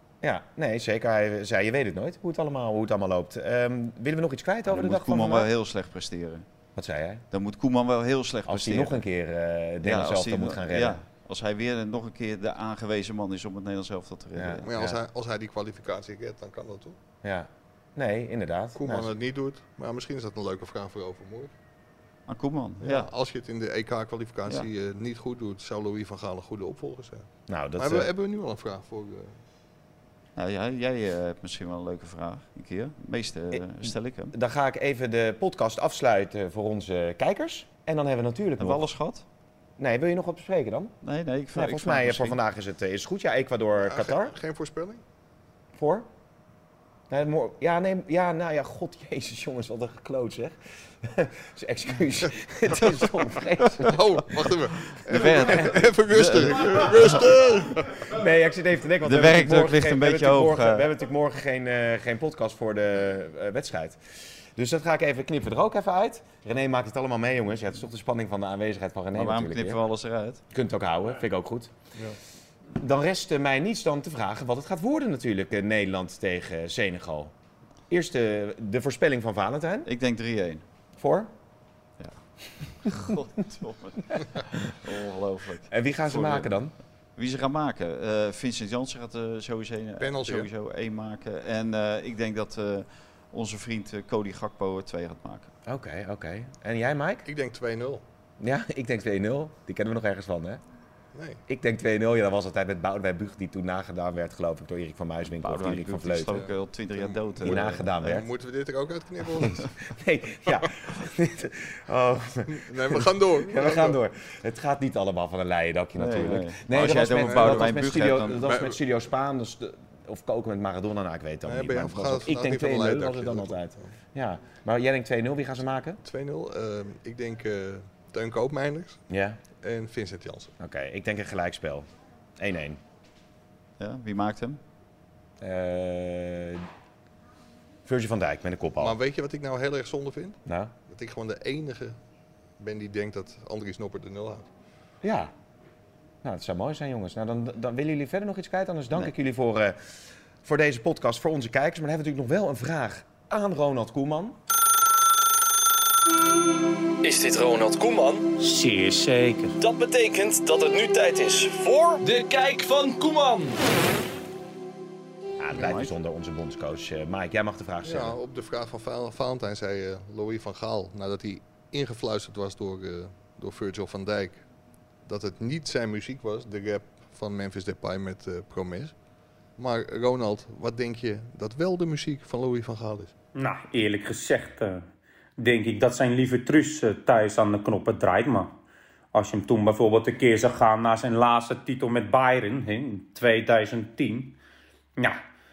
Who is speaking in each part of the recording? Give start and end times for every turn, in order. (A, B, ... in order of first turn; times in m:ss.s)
0:00.2-0:05.5 A
0:04.6-0:06.4 B
0:06.8-0:07.2 A
0:07.3-0:09.0 B
0:08.5-0:11.0 A
0:09.8-0:14.9 B
0:14.3-0:14.9 A
0:14.6-0:17.0 C
0:17.2-0:19.1 A
0:18.8-0:21.5 C
0:22.3-0:23.1 B
0:22.8-0:29.4 C
0:27.5-0:28.1 A
0:30.4-0:34.3 B
0:33.5-0:38.8 A
0:38.6-0:39.2 B
0:39.8-0:40.9 A
0:41.0-0:42.4 B
0:41.5-0:44.3 A
0:43.8-0:45.0 C
0:45.7-0:46.1 A
0:47.1-0:54.4 A
0:53.8-0:58.1 C
0:55.1-0:57.2 B
0:55.2-0:55.7 A
0:58.0-1:09.8 A
0:59.0-1:00.9 B
1:09.1-1:10.4 B
1:10.5-1:11.7 A
1:12.7-1:17.3 A
1:17.9-1:19.9 A
1:19.8-1:20.6 B
1:21.0-1:21.3 A
1:22.0-1:26.5 B
1:25.7-1:26.7 A
1:27.2-1:35.5 B
1:30.0-1:30.5 C
1:35.6-1:37.3 A
1:37.2-1:38.0 C
1:38.4-1:40.6 A
1:41.1-1:41.4 C
1:41.5-1:46.4 A
1:45.4-1:47.8 B
1:46.3-1:49.6 C
1:47.4-1:48.3 A
1:49.4-2:06.0 A
1:52.5-1:54.0 C
1:56.0-1:58.5 B
1:57.2-1:57.8 C
1:58.3-1:58.8 C
2:01.4-2:03.9 C
2:06.0-2:09.0 C
2:09.1-2:09.4 A
2:09.6-2:10.5 C
2:10.6-2:12.8 A
2:13.8-2:14.6 B
2:15.4-2:16.6 A
2:17.8-2:19.0 A
2:18.8-2:22.0 C
2:20.4-2:20.7 A
2:22.6-2:24.5 C
2:25.0-2:25.3 A
2:26.2-2:29.8 A
2:30.4-2:34.4 A
2:37.0-2:38.3 D
2:38.4-2:39.6 E
2:39.6-2:43.6 D
2:45.4-2:48.2 A
2:45.5-2:45.9 B
2:47.8-2:54.4 C
2:55.0-2:58.9 C
2:59.6-3:03.1 C
3:03.3-3:04.8 E
3:05.4-3:08.5 E
3:09.1-3:14.4 E